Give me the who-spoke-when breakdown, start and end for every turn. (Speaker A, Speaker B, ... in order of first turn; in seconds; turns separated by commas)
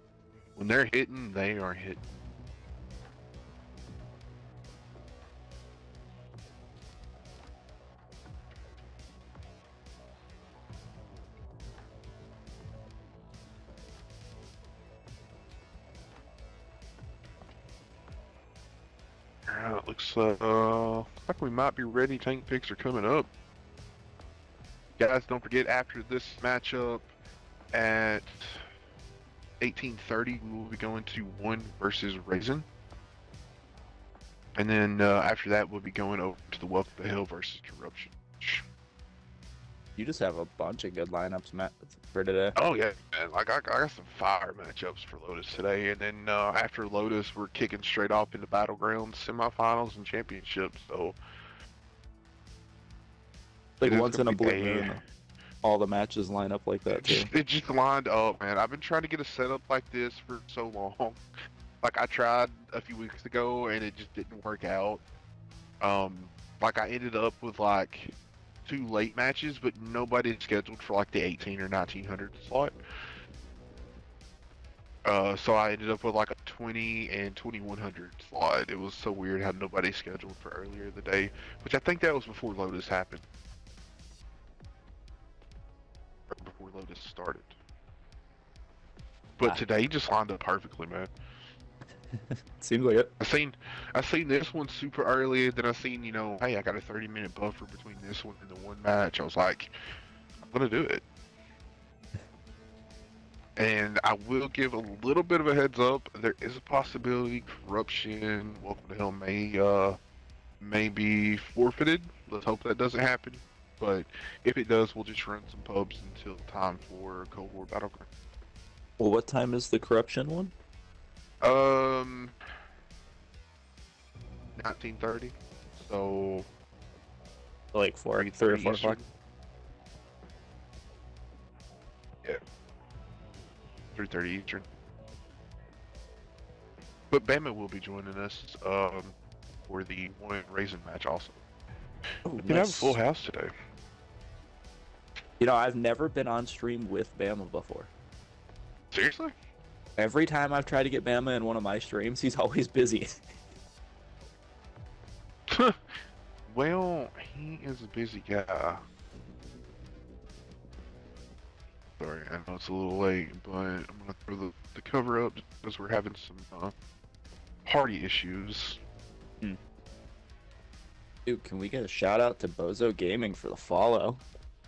Speaker A: 0.6-2.0, Speaker A: 19.5-23.3, Speaker A: 25.0-27.1, Speaker A: 27.7-28.6, Speaker A: 29.6-32.6, Speaker A: 34.6-38.6, Speaker B: 40.0-42.5, Speaker A: 42.5-51.2, Speaker B: 53.8-55.0, Speaker A: 53.8-55.0, Speaker B: 55.6-57.3, Speaker A: 56.9-61.2, Speaker A: 61.8-65.0, Speaker A: 65.8-68.1, Speaker A: 68.7-72.7, Speaker A: 75.0-83.2, Speaker A: 86.3-87.5, Speaker A: 89.4-91.1, Speaker B: 92.1-93.1, Speaker A: 93.2-99.7, Speaker A: 100.4-101.0, Speaker A: 103.5-110.0, Speaker A: 110.6-118.1, Speaker B: 119.0-120.5, Speaker A: 121.4-122.3, Speaker A: 124.5-126.5, Speaker B: 127.7-129.0, Speaker A: 128.1-129.1, Speaker A: 133.9-134.7, Speaker A: 137.1-141.4, Speaker B: 142.2-143.0, Speaker A: 142.4-143.5, Speaker B: 145.4-147.9, Speaker A: 148.9-149.3, Speaker B: 150.0-153.2, Speaker A: 155.5-155.8, Speaker A: 156.5-158.8, Speaker A: 162.0-166.7, Speaker A: 167.6-168.8, Speaker B: 171.2-174.2